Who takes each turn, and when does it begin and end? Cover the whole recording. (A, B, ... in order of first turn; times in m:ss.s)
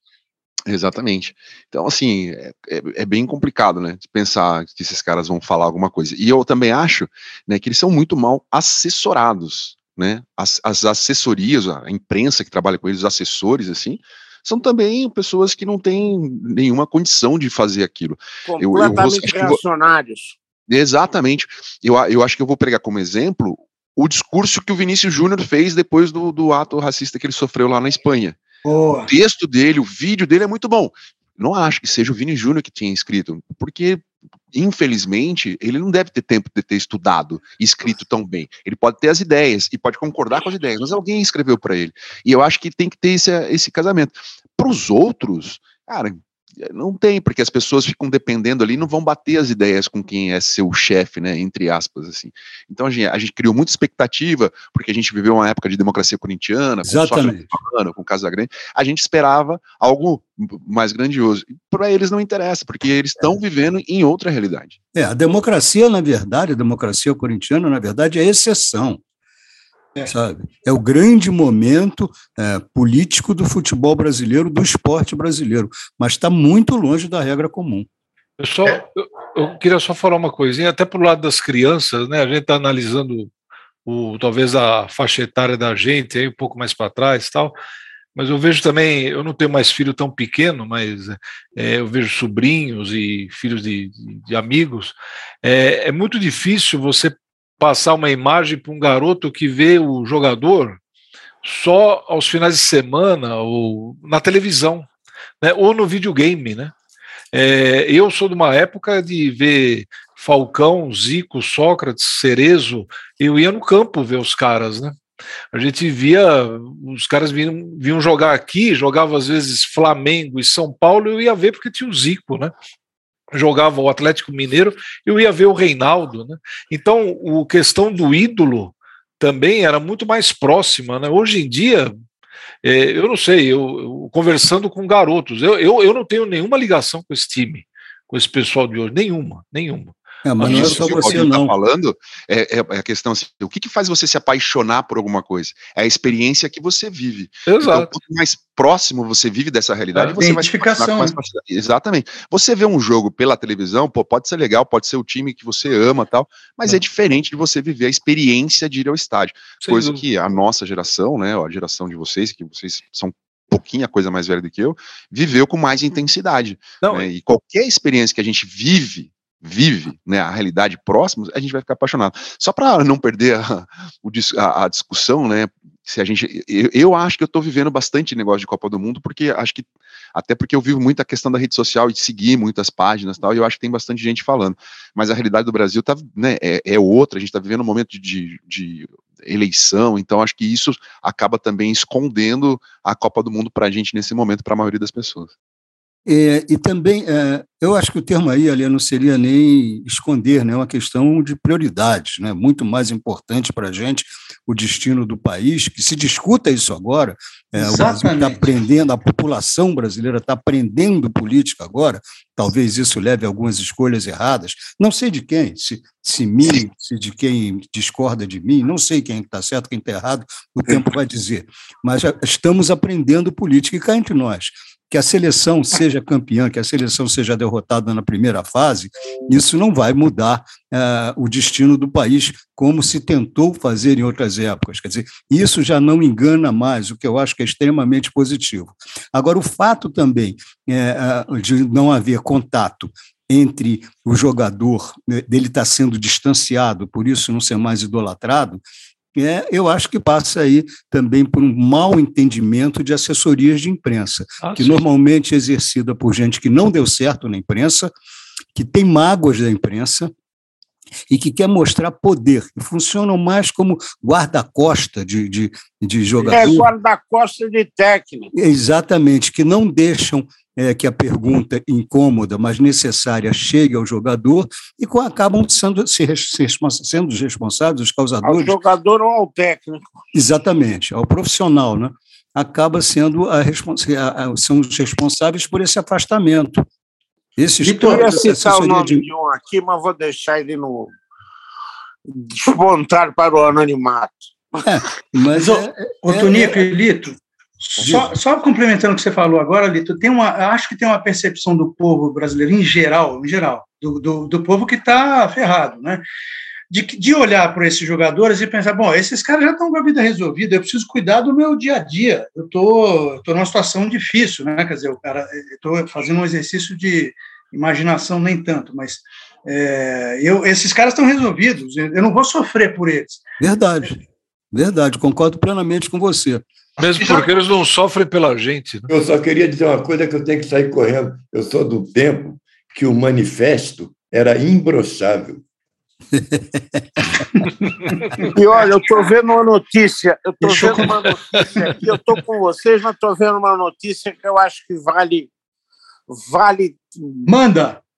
0:00.6-0:19.6 A
0:18.4-0:20.4 B
0:20.7-0:28.4 A
0:28.6-0:29.1 C
0:29.0-1:04.8 A
0:56.8-0:57.5 D
1:04.9-1:09.0 D
1:10.0-1:17.9 D
1:18.4-1:23.3 E
1:23.8-1:27.5 E
1:28.1-1:40.8 E
1:41.4-1:44.9 E
1:45.4-1:46.7 E
1:47.3-1:55.0 E
1:55.5-2:02.5 E
2:03.3-2:11.9 E
2:12.6-2:21.0 E
2:20.2-2:21.5 D
2:20.4-3:15.3 A
2:27.5-2:27.9 E
2:30.2-2:31.2 C
2:39.6-2:40.0 E
2:46.8-2:47.1 E
3:16.0-4:08.6 D
3:27.6-3:28.4 C
4:09.2-4:17.9 D
4:14.4-4:14.8 E
4:18.5-4:20.1 D
4:21.1-4:26.7 D
4:26.3-4:28.3 B
4:28.3-4:38.6 D
4:38.2-4:39.9 B
4:40.1-4:46.6 D
4:47.4-4:49.0 D
4:47.6-4:48.2 C
4:47.8-4:50.9 B
4:52.1-4:54.6 B
4:54.6-4:56.7 D
4:55.3-5:06.0 C
4:57.8-4:58.1 D
5:06.7-5:23.2 C
5:23.4-5:24.0 D
5:24.5-5:26.4 D
5:26.8-5:28.9 E
5:26.9-5:27.2 C
5:28.9-5:35.4 F
5:36.1-5:36.8 D
5:37.4-5:38.3 C
5:38.3-5:45.3 B
5:40.4-5:40.9 C
5:40.7-5:41.4 E
5:46.1-5:47.3 B
5:47.2-5:47.8 C